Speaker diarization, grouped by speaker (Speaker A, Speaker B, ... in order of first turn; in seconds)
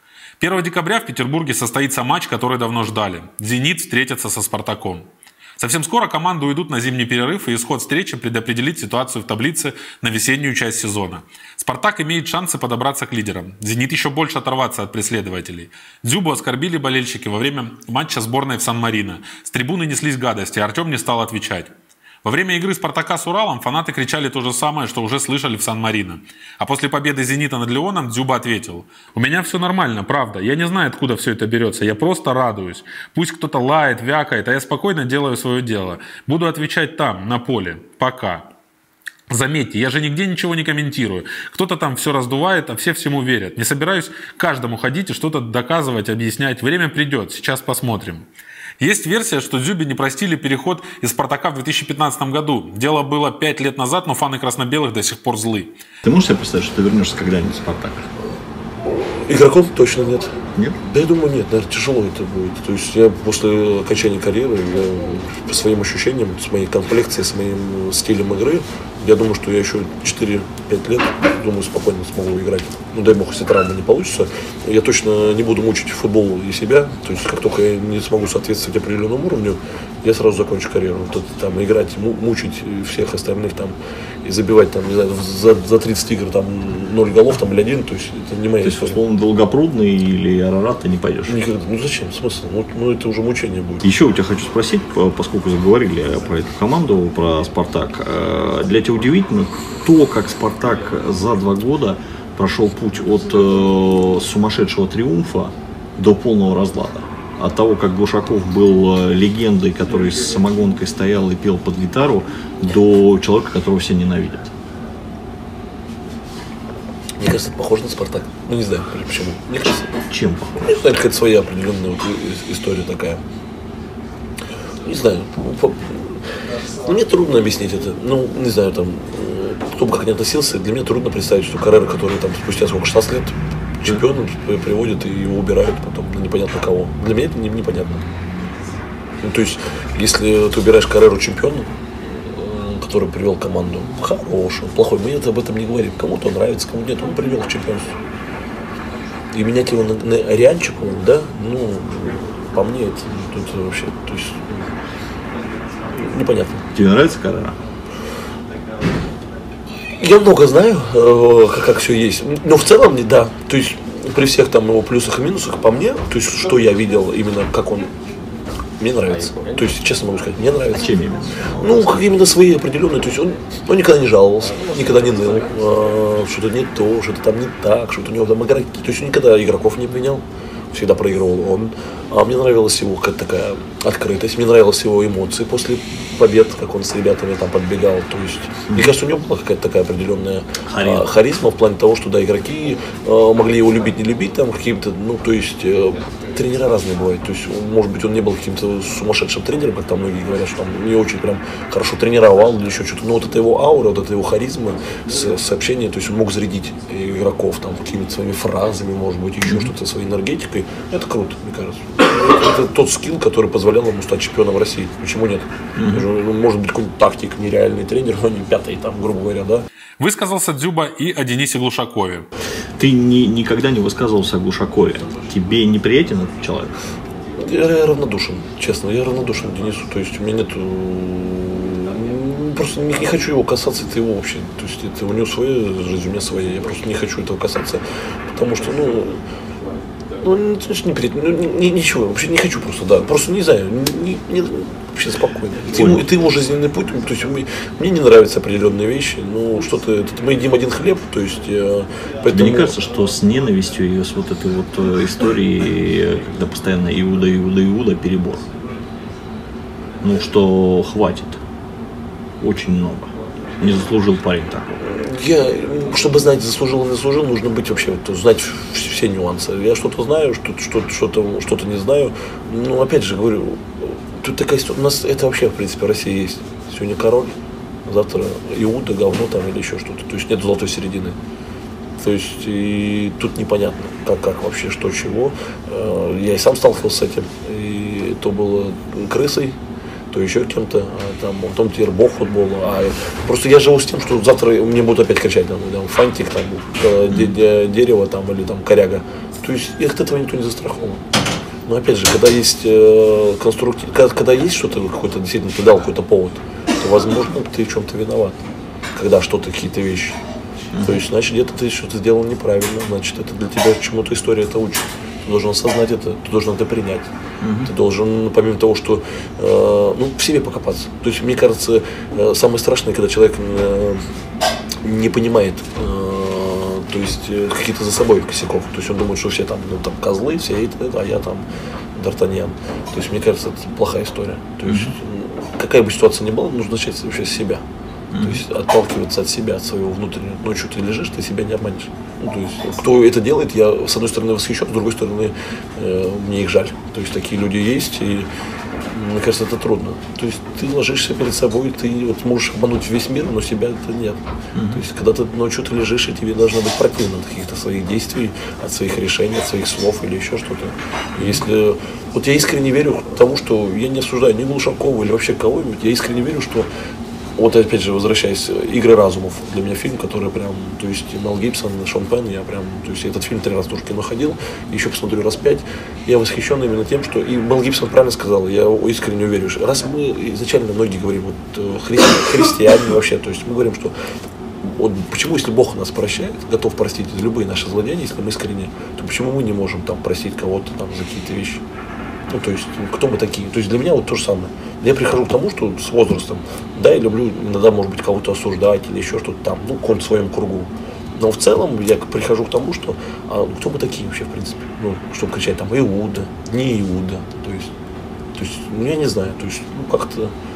Speaker A: 0.4-5.0, 5.6-21.7, 22.2-38.5, 39.3-48.2, 48.8-55.7, 220.0-222.2
Speaker B: 56.0-58.1, 88.6-91.4, 93.8-114.5, 120.1-120.6, 156.7-157.6, 170.8-172.0, 190.7-191.1, 209.4-209.7, 215.7-216.1, 222.8-226.7, 245.7-246.0, 252.3-258.4, 260.0-261.4, 262.4-264.7, 297.1-297.3, 310.7-311.0, 317.4-317.7, 334.7-334.9, 338.1-338.4, 354.5-354.8
Speaker C: 58.8-89.0, 91.2-93.8, 117.2-120.0, 120.6-123.2, 124.8-126.2, 126.8-138.0, 139.2-141.7, 142.2-147.9, 149.3-154.7, 155.9-156.6, 160.0-167.9, 168.8-170.9, 171.5-219.6, 227.4-239.2, 240.2-252.7, 264.7-277.3, 277.9-281.2, 282.0-289.6, 290.1-301.0, 301.6-308.4, 308.9-310.2, 310.8-317.1, 317.6-324.0, 324.8-337.6, 338.2-348.3, 348.9-366.7, 367.4-383.9, 384.6-391.6, 392.3-407.7, 408.3-410.3